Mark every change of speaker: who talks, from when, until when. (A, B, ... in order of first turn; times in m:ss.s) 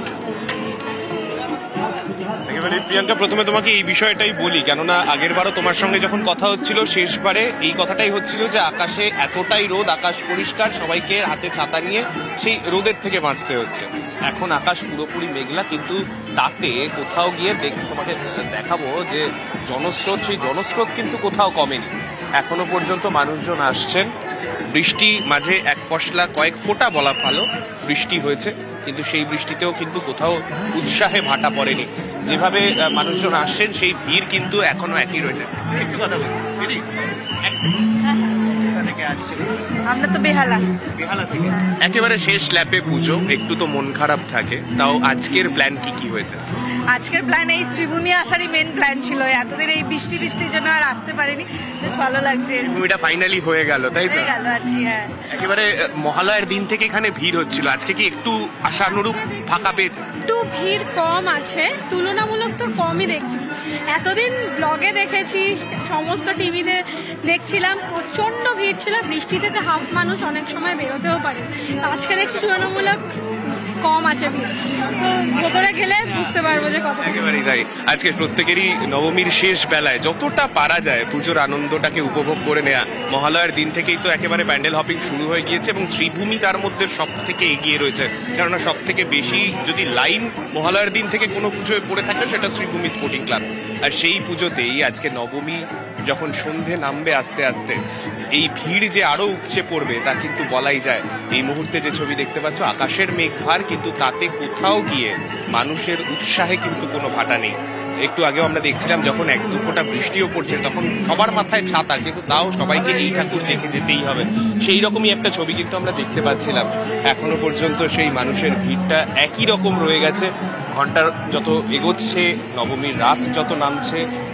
0:02.5-0:24.1 A
0:24.7-0:36.8 A
0:38.8-0:39.5 A
0:39.9-0:40.6 B
0:41.0-0:46.4 A
0:46.9-0:52.8 B
0:52.7-0:54.3 A
0:54.1-0:55.2 B
0:55.3-1:00.0 A
1:00.3-1:17.2 C
1:17.0-1:37.8 A
1:38.3-2:04.0 A